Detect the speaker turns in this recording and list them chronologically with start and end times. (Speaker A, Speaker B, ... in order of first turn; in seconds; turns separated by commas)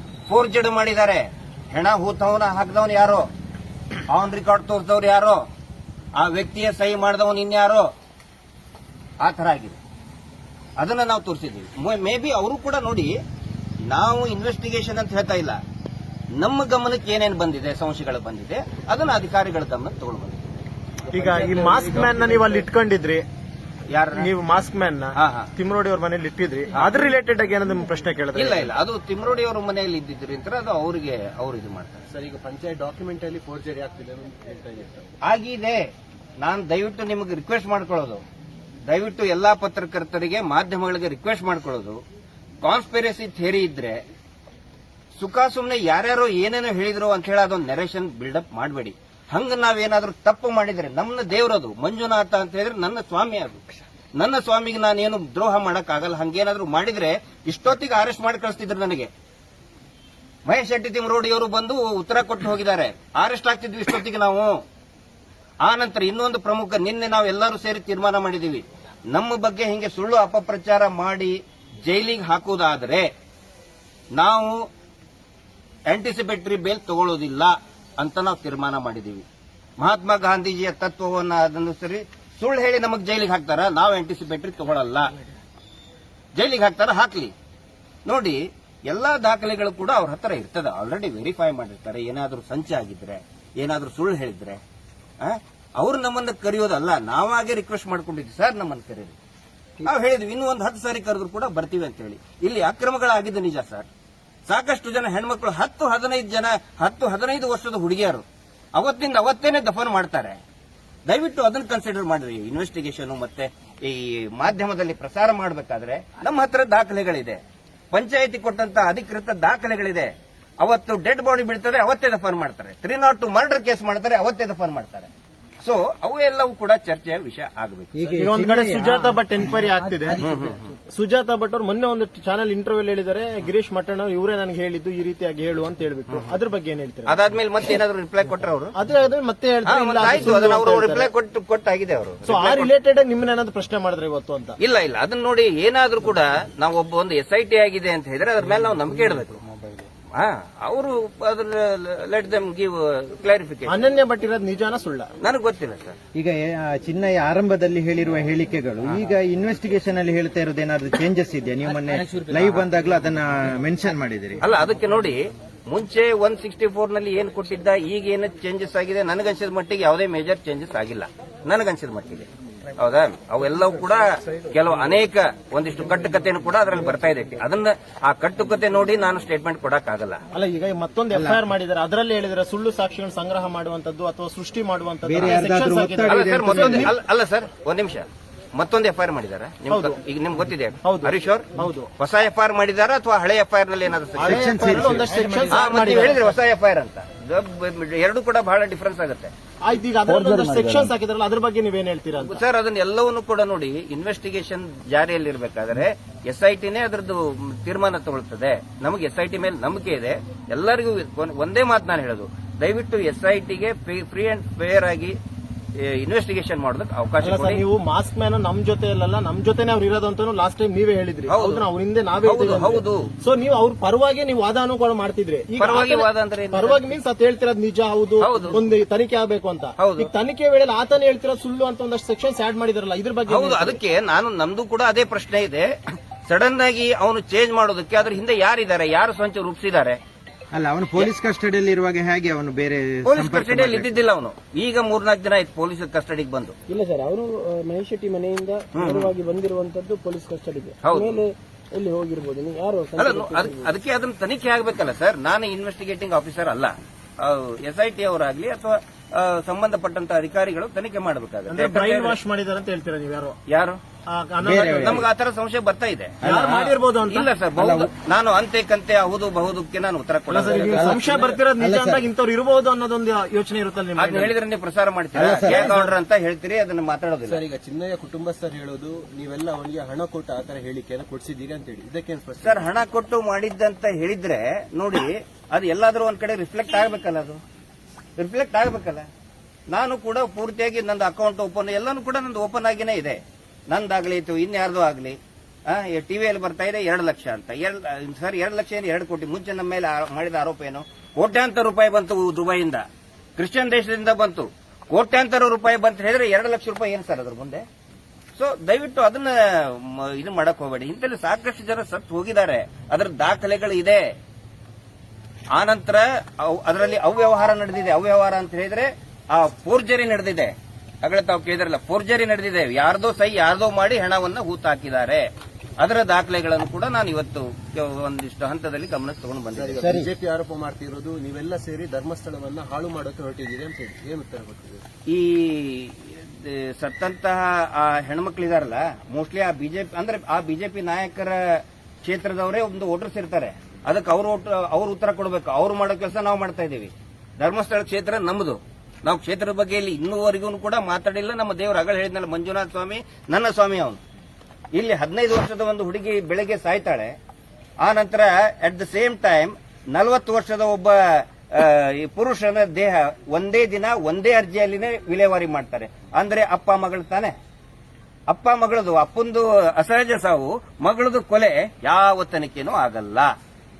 Speaker A: 0.3-3.3, Speaker A: 4.1-5.4, Speaker A: 6.2-7.9, Speaker A: 9.2-9.8, Speaker A: 10.8-13.1, Speaker A: 13.9-15.6, Speaker A: 16.4-20.4, Speaker B: 21.0-22.7, Speaker C: 21.1-23.2, Speaker A: 23.9-24.3, Speaker C: 24.2-28.7, Speaker A: 25.2-25.5, Speaker A: 28.3-32.0, Speaker B: 32.1-35.1, Speaker A: 35.2-35.8, Speaker A: 36.4-38.2, Speaker A: 38.9-42.0, Speaker A: 42.6-44.0, Speaker A: 45.2-53.6, Speaker A: 54.2-59.1, Speaker A: 60.5-64.5, Speaker A: 65.6-73.1, Speaker A: 74.2-74.7, Speaker A: 75.9-79.2, Speaker A: 79.8-85.1, Speaker A: 86.4-87.3, Speaker A: 88.0-94.6, Speaker A: 95.2-99.2, Speaker A: 99.8-103.9, Speaker A: 104.5-108.2, Speaker A: 108.8-110.4, Speaker A: 111.1-125.1, Speaker A: 125.6-128.2, Speaker D: 127.9-130.5, Speaker C: 128.2-130.2, Speaker A: 130.2-130.7, Speaker C: 130.9-137.2, Speaker A: 136.1-136.3, Speaker A: 137.1-138.8, Speaker C: 138.8-141.1, Speaker A: 139.7-142.7, Speaker C: 142.2-144.6, Speaker A: 144.6-149.4, Speaker A: 150.1-153.8, Speaker C: 153.7-155.1, Speaker A: 155.2-156.0, Speaker D: 156.2-164.4, Speaker A: 164.4-180.2, Speaker C: 180.3-186.9, Speaker D: 181.1-181.4, Speaker D: 185.1-186.9, Speaker A: 186.1-188.1, Speaker A: 188.6-195.0, Speaker C: 189.7-190.0, Speaker C: 190.8-191.9, Speaker C: 194.2-196.2, Speaker D: 194.2-195.6, Speaker A: 195.5-199.3, Speaker C: 199.6-202.4, Speaker D: 200.1-200.9, Speaker A: 202.2-215.2, Speaker A: 215.8-217.6, Speaker C: 217.2-233.8, Speaker A: 221.3-221.7, Speaker A: 222.2-223.1, Speaker A: 225.6-226.9, Speaker A: 228.2-228.6, Speaker A: 229.8-230.1, Speaker A: 233.3-235.7, Speaker A: 236.3-240.0, Speaker D: 240.5-243.9, Speaker A: 243.1-246.6, Speaker E: 246.7-253.7, Speaker A: 248.7-249.1, Speaker A: 250.8-251.2, Speaker A: 253.0-262.2, Speaker C: 261.5-263.4, Speaker A: 263.5-263.8, Speaker C: 264.1-265.0, Speaker D: 264.4-265.1, Speaker A: 264.8-270.9, Speaker D: 266.2-266.7, Speaker C: 266.2-267.3, Speaker D: 267.6-267.9, Speaker C: 270.3-274.3, Speaker B: 270.4-271.4, Speaker D: 270.7-271.0, Speaker D: 271.6-272.1, Speaker A: 274.0-277.4, Speaker D: 275.1-275.8, Speaker C: 275.4-275.9, Speaker B: 277.2-282.7, Speaker A: 282.4-287.4, Speaker A: 288.2-289.1, Speaker A: 289.7-302.9, Speaker A: 303.4-307.6, Speaker A: 308.4-314.0, Speaker A: 315.5-325.2, Speaker A: 325.8-329.8, Speaker B: 329.5-334.8, Speaker D: 329.8-330.1, Speaker A: 335.1-354.0, Speaker A: 354.7-357.1, Speaker A: 357.8-367.3, Speaker A: 368.3-373.3